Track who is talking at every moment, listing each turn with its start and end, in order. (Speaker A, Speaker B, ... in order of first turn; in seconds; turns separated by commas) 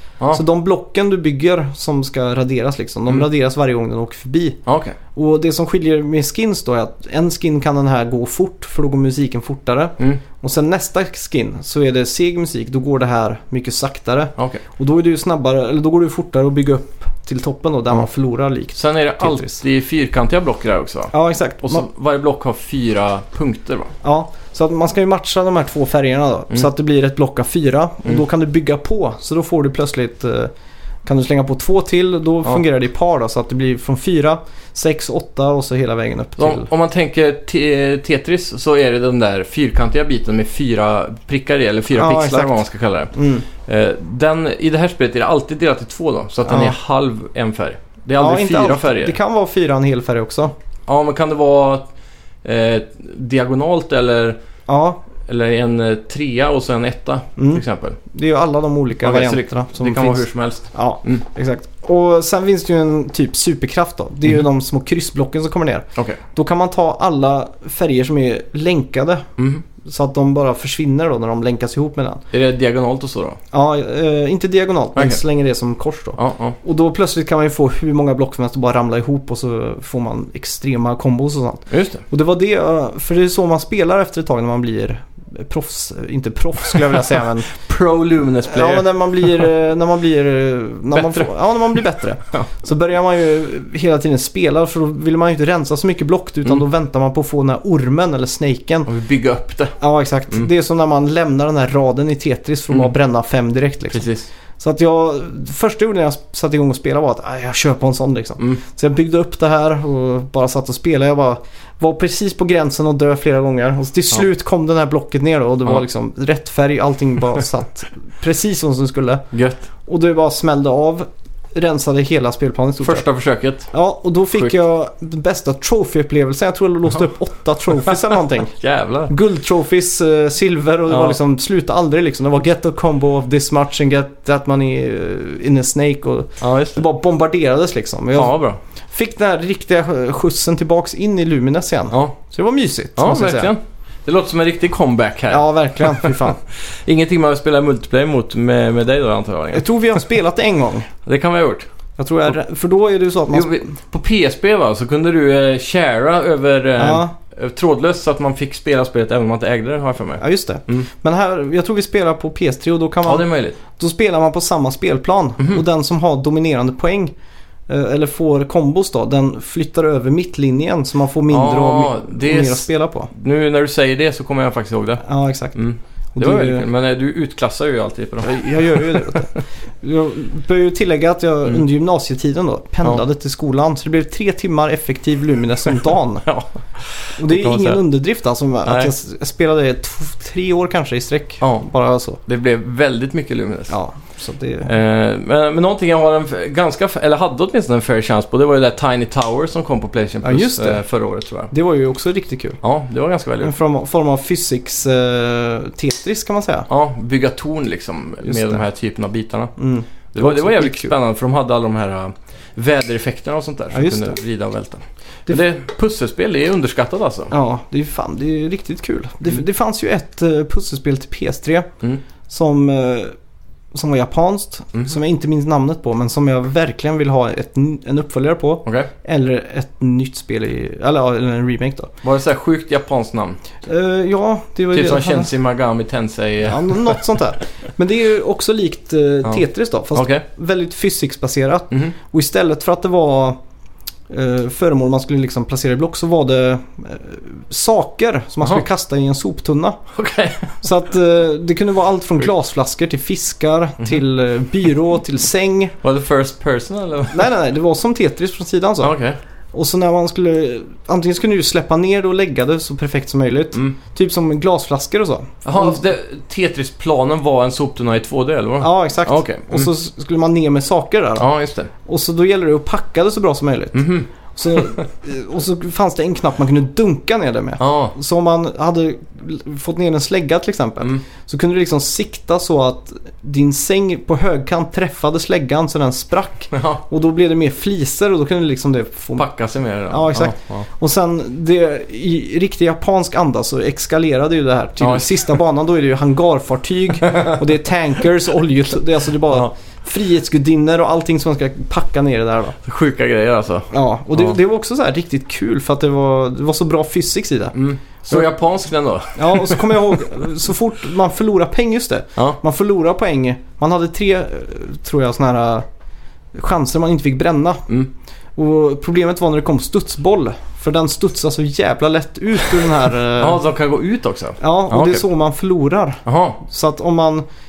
Speaker A: 0.3-4.6, Speaker B: 4.7-5.0, Speaker A: 5.2-19.6, Speaker B: 18.8-23.9, Speaker A: 21.1-21.9, Speaker A: 24.0-30.5, Speaker A: 31.1-36.7, Speaker B: 36.4-49.1, Speaker A: 41.9-43.5, Speaker A: 46.5-46.8, Speaker A: 48.2-50.5, Speaker B: 50.9-51.9, Speaker B: 52.4-54.4, Speaker A: 54.7-55.0, Speaker B: 55.2-58.0, Speaker A: 57.4-69.3, Speaker B: 59.0-61.2, Speaker B: 69.4-69.6, Speaker A: 69.8-72.2, Speaker B: 72.3-73.4, Speaker A: 73.5-87.5, Speaker B: 76.2-76.6, Speaker B: 81.7-82.0, Speaker B: 87.5-89.4, Speaker A: 88.5-98.9, Speaker B: 90.9-91.3, Speaker B: 98.9-99.8, Speaker A: 99.8-104.0, Speaker B: 103.9-104.3, Speaker A: 104.6-119.3, Speaker B: 119.3-119.7, Speaker A: 119.9-123.1, Speaker B: 122.8-123.7, Speaker A: 123.7-128.6, Speaker B: 128.6-129.1, Speaker A: 129.1-138.4, Speaker B: 130.9-131.2, Speaker B: 136.4-136.8, Speaker B: 138.2-138.6, Speaker A: 138.9-143.5, Speaker B: 143.0-149.7, Speaker A: 145.3-146.4, Speaker A: 149.5-150.9, Speaker B: 151.1-151.7, Speaker A: 152.0-153.8, Speaker B: 153.3-160.9, Speaker A: 156.8-157.1, Speaker A: 160.2-167.1, Speaker B: 163.1-163.6, Speaker A: 167.7-173.1, Speaker B: 171.3-175.0, Speaker A: 175.0-175.6, Speaker B: 175.6-179.2, Speaker A: 176.2-176.7, Speaker A: 178.2-186.3, Speaker B: 186.2-187.8, Speaker A: 187.2-192.2, Speaker B: 188.7-188.9, Speaker B: 191.4-191.7, Speaker B: 192.3-193.7, Speaker A: 193.7-194.7, Speaker B: 194.7-201.5, Speaker A: 200.2-200.8, Speaker A: 201.5-202.6, Speaker B: 202.6-203.5, Speaker A: 203.4-206.7, Speaker B: 206.7-209.5, Speaker A: 208.2-208.6, Speaker A: 209.6-210.9, Speaker B: 210.1-217.3, Speaker A: 213.7-214.2, Speaker A: 217.3-221.7, Speaker A: 222.3-223.2, Speaker A: 223.7-231.9, Speaker B: 232.0-233.4, Speaker A: 233.7-235.3, Speaker B: 234.7-237.0, Speaker A: 236.4-243.4, Speaker B: 239.9-240.2, Speaker A: 244.1-249.8, Speaker B: 249.9-250.6, Speaker A: 250.6-255.8, Speaker B: 255.8-257.3, Speaker A: 257.1-258.9, Speaker B: 258.8-259.2, Speaker A: 259.5-265.8, Speaker B: 265.4-269.7, Speaker A: 268.6-271.3, Speaker B: 271.2-271.7, Speaker A: 271.8-289.3, Speaker B: 273.7-274.6, Speaker B: 277.6-277.9, Speaker B: 286.5-286.8, Speaker B: 289.2-290.7, Speaker A: 289.9-302.6, Speaker B: 294.8-295.2, Speaker B: 302.6-304.4, Speaker A: 303.7-307.6, Speaker B: 307.6-309.9, Speaker A: 309.1-315.7, Speaker A: 316.3-317.7, Speaker A: 318.4-323.4, Speaker B: 323.2-325.1, Speaker A: 324.4-327.2, Speaker B: 326.1-326.4